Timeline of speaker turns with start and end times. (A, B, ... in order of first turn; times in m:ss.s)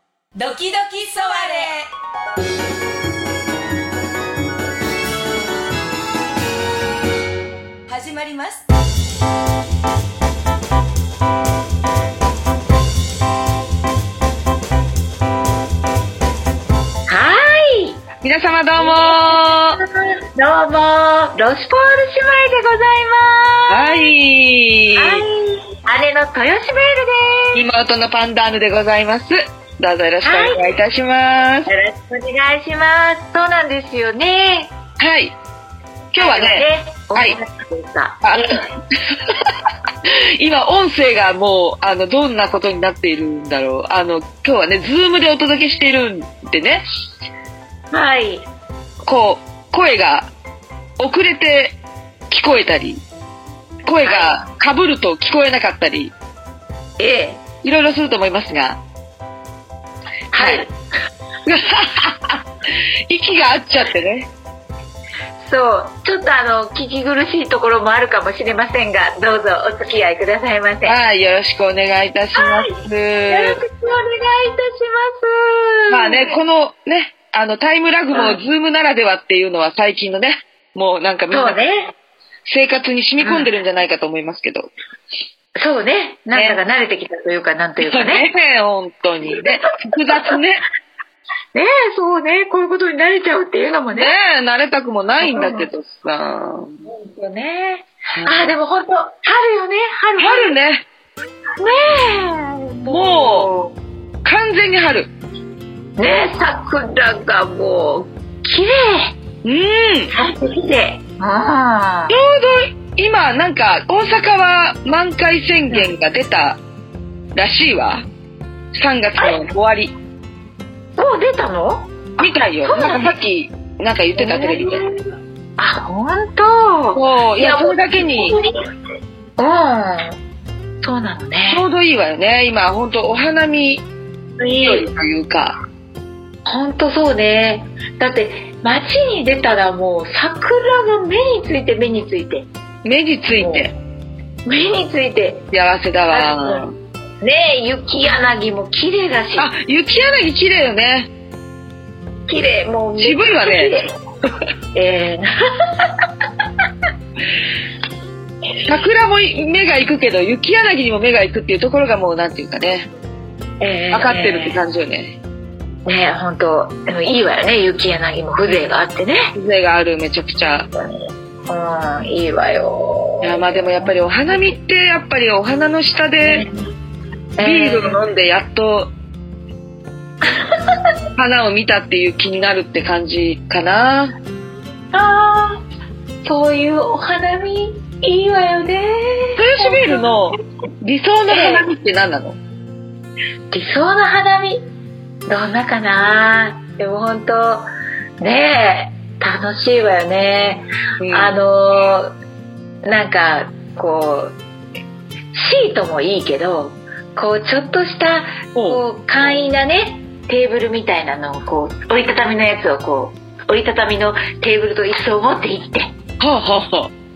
0:00.4-0:01.9 A
0:07.9-0:08.7 A
0:17.1-0:18.0 B
0:18.2-0:19.8 C
0:18.8-0:24.0 B
0:23.7-0:25.2 C
0:25.0-0:27.7 B
0:27.5-0:31.7 C
0:30.2-0:30.6 B
0:31.7-0:34.7 B
0:35.0-0:35.3 C
0:36.1-0:37.4 C
0:36.2-0:38.6 B
0:38.2-0:39.5 C
0:40.0-0:46.8 C
0:47.9-0:48.5 B
0:49.0-0:50.3 C
0:51.0-0:51.8 C
0:52.3-0:53.0 C
0:53.9-0:56.1 C
0:54.0-0:54.5 B
0:57.0-0:57.4 B
0:57.6-0:58.8 C
1:00.3-1:00.7 B
1:00.4-1:00.7 C
1:01.5-1:02.4 C
1:03.1-1:04.3 C
1:05.4-1:11.0 B
1:10.8-1:13.6 C
1:12.4-1:16.4 B
1:15.9-1:21.6 C
1:18.1-1:18.4 B
1:21.3-1:22.0 B
1:22.5-1:24.7 C
1:23.2-1:23.5 B
1:25.6-1:28.3 B
1:26.3-1:26.6 C
1:27.8-1:30.7 C
1:31.5-1:34.2 B
1:34.0-1:36.8 C
1:35.2-1:35.7 B
1:36.9-1:40.6 B
1:38.1-1:38.6 C
1:40.2-1:40.9 C
1:41.6-1:43.8 B
1:42.9-1:43.5 C
1:44.2-1:45.1 C
1:46.0-1:49.2 B
1:49.4-1:50.1 C
1:50.1-1:52.2 B
1:52.1-1:56.6 C
1:57.4-1:58.0 C
1:58.8-1:59.9 C
2:01.0-2:02.0 B
2:02.2-2:04.8 C
2:02.6-2:03.2 B
2:04.2-2:05.0 B
2:05.6-2:08.5 B
2:06.9-2:08.4 C
2:09.4-2:10.2 B
2:10.8-2:11.7 B
2:11.5-2:13.8 C
2:14.4-2:14.9 B
2:14.6-2:15.6 C
2:16.4-2:22.5 B
2:22.8-2:23.8 C
2:23.3-2:23.7 B
2:24.4-2:25.5 B
2:25.5-2:26.8 C
2:26.1-2:26.7 B
2:27.2-2:29.5 B
2:29.4-2:31.1 C
2:32.3-2:33.9 B
2:33.0-2:33.8 C
2:34.7-2:35.9 B
2:38.6-2:42.9 C
2:43.6-2:44.6 B
2:43.9-2:45.2 C
2:45.8-2:49.3 B
2:49.4-2:50.7 C
2:50.7-2:54.6 B
2:53.2-2:56.5 C
2:56.2-2:56.7 B
2:57.4-2:58.0 B
2:57.4-2:58.9 C
3:00.2-3:00.8 B
3:01.2-3:04.2 C
3:04.9-3:05.6 B
3:06.2-3:10.2 B
3:09.4-3:12.4 C
3:11.3-3:11.7 B
3:13.5-3:14.6 B
3:15.3-3:17.7 B
3:18.2-3:22.1 B
3:21.0-3:21.4 C
3:22.8-3:24.4 B
3:25.3-3:35.9 B
3:28.6-3:28.8 C
3:36.2-3:36.9 C